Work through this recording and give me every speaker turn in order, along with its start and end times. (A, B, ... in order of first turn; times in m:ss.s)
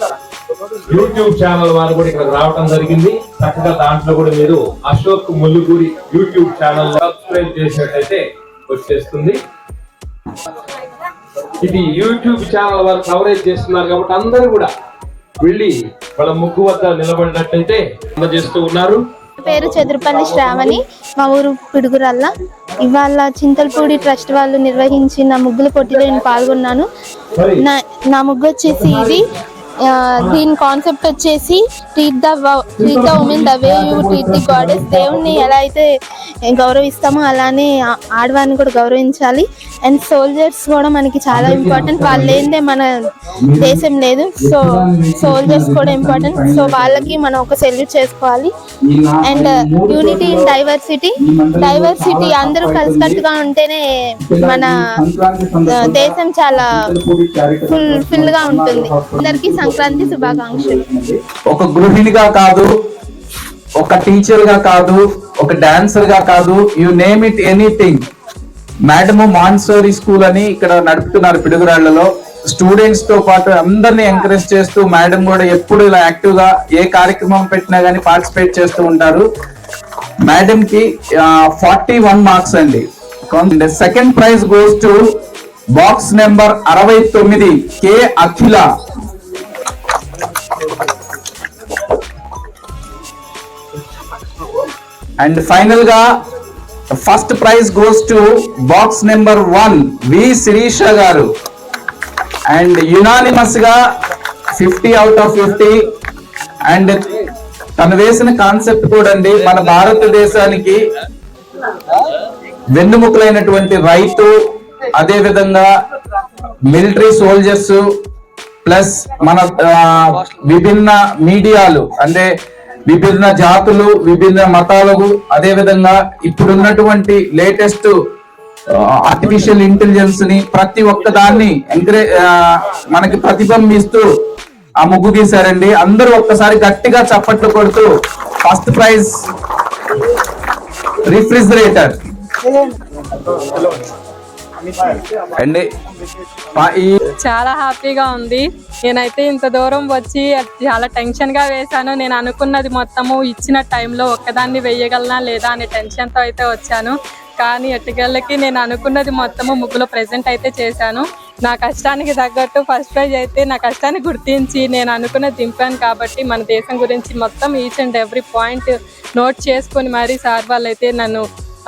0:00.9-0:09.4 A
0:11.6-0:14.7 A
0:15.4-0:19.0 A
0:19.4-0:22.3 B
0:22.8-0:26.8 B
0:27.4-0:27.7 A
0:27.6-0:29.3 B
0:28.7-0:29.2 A
0:29.9-0:35.8 B
0:32.8-0:33.6 A
0:33.7-0:35.5 C
0:36.5-0:42.9 B
0:41.3-0:42.5 C
0:43.4-0:43.8 C
0:43.6-0:48.5 B
0:44.4-0:47.2 C
0:48.9-0:50.6 C
0:49.2-0:53.8 B
0:51.2-0:53.2 C
0:54.2-1:02.7 C
0:54.4-0:54.7 B
0:55.7-0:56.7 B
0:57.7-1:00.8 B
1:03.8-1:08.0 C
1:08.9-1:19.2 C
1:20.3-1:25.0 C
1:25.8-1:28.6 C
1:35.2-1:36.1 C
1:37.0-1:41.3 C
1:42.5-1:43.7 C
1:44.6-1:45.7 C
1:46.7-1:47.0 C
1:47.8-1:50.8 C
1:52.7-1:54.3 C
1:55.0-1:55.7 C
1:56.7-1:57.8 C
1:58.6-2:02.3 C
2:02.9-2:07.9 C
2:08.9-2:12.3 C
2:12.9-2:14.0 C
2:14.8-2:17.9 C
2:18.4-2:19.1 C
2:21.1-2:21.9 C
2:25.4-2:25.6 C
2:26.5-2:26.9 C
2:27.2-2:51.2 D